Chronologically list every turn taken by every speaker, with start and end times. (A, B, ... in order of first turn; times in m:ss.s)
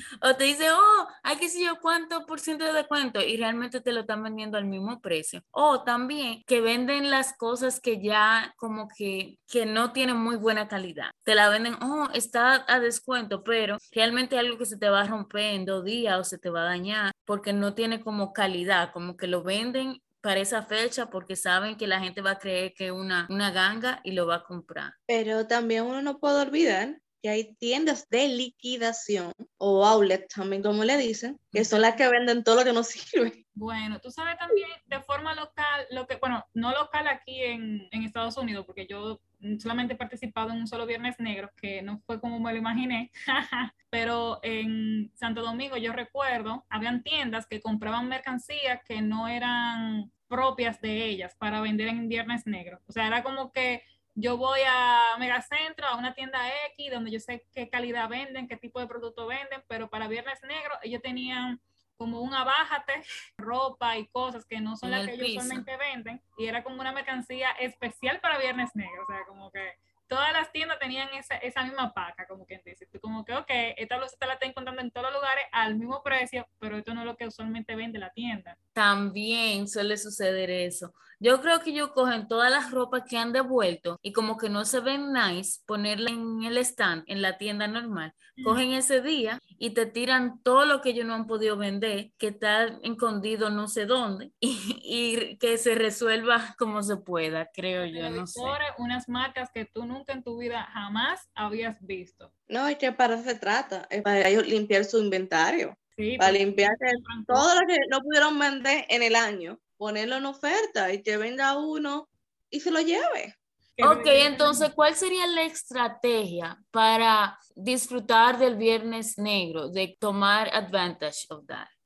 0:00.2-0:25.0 A
0:25.1-0:33.4 B
0:33.6-1:18.6 C
1:04.8-1:05.7 A
1:18.8-1:38.6 A
1:28.4-1:28.6 C
1:37.8-1:42.3 C
1:42.5-1:53.3 B
1:46.0-1:47.5 C
1:53.8-1:54.7 C
1:53.8-2:01.7 A